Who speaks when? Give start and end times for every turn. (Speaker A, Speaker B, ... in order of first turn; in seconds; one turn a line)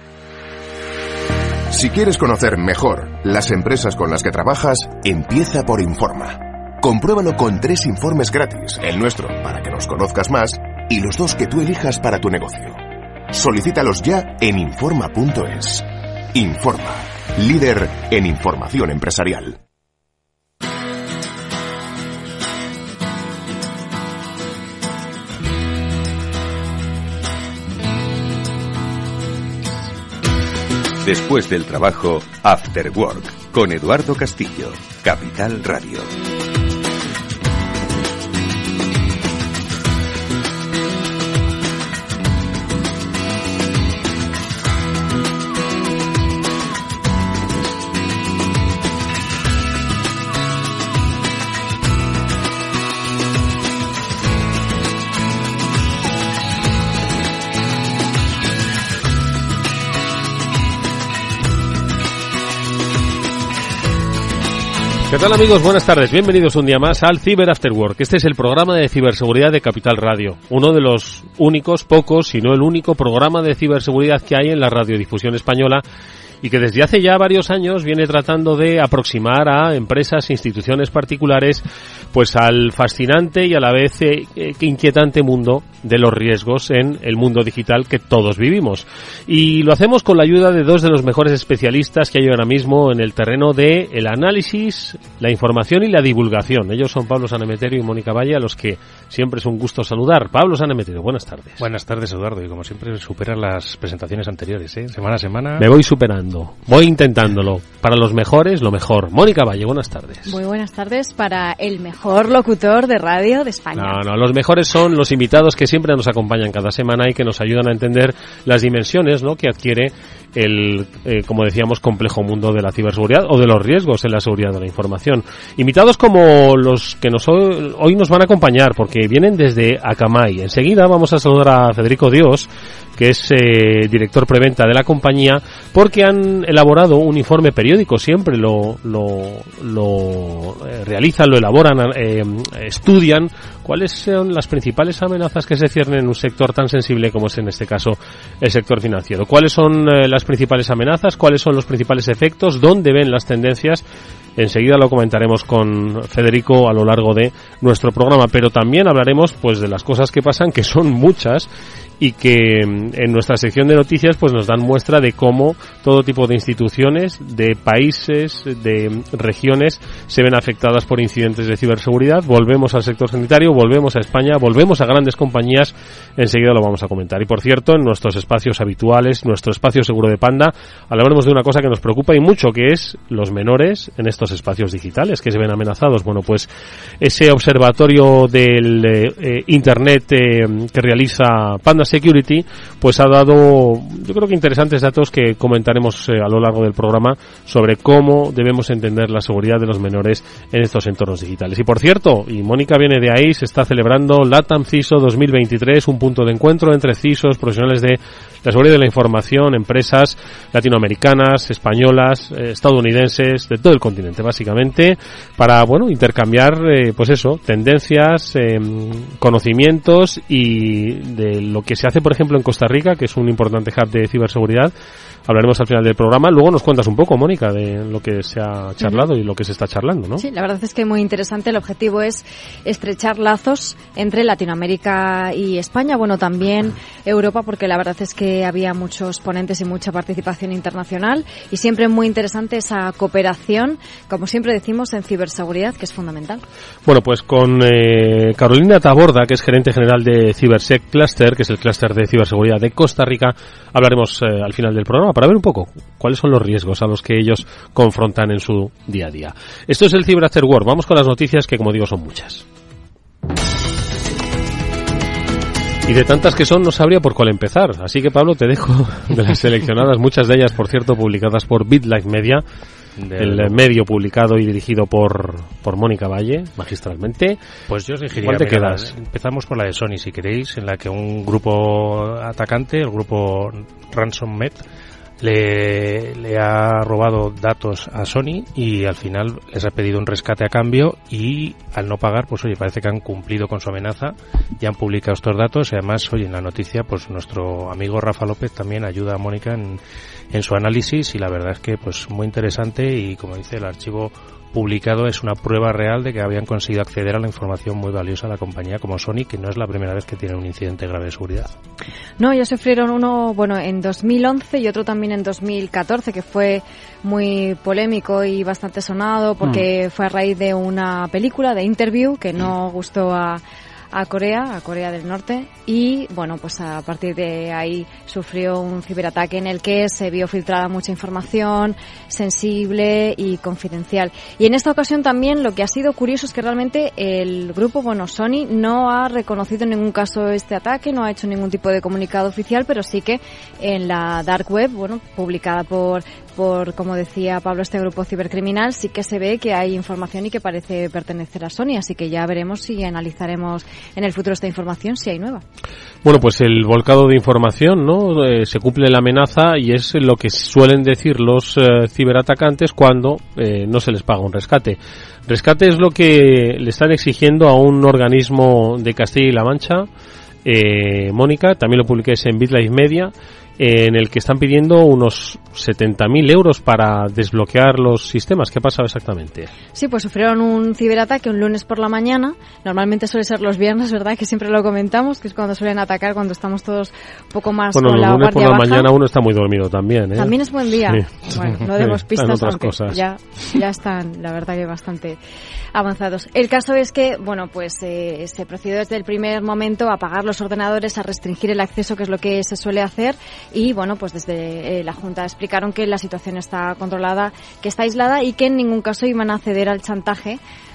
Speaker A: 1.7-19.6
Speaker B: 31.0-36.1
Speaker C: 65.1-75.8
Speaker C: 76.4-101.6
Speaker D: 101.6-105.7
Speaker C: 105.6-110.3
Speaker E: 110.2-114.0
Speaker C: 113.8-153.8
Speaker C: 154.3-224.7
Speaker C: 225.2-230.2
Speaker E: 230.2-246.4
Speaker C: 246.8-262.4
Speaker C: 265.9-272.4
Speaker D: 273.0-273.6
Speaker C: 273.2-277.4
Speaker D: 277.7-284.6
Speaker C: 278.1-278.9
Speaker D: 285.2-299.8
Speaker D: 300.3-311.5
Speaker E: 312.2-355.4
Speaker C: 356.0-369.9
Speaker C: 370.4-379.5
Speaker E: 379.7-388.9
Speaker C: 387.7-393.0
Speaker E: 390.1-395.2
Speaker E: 395.7-410.4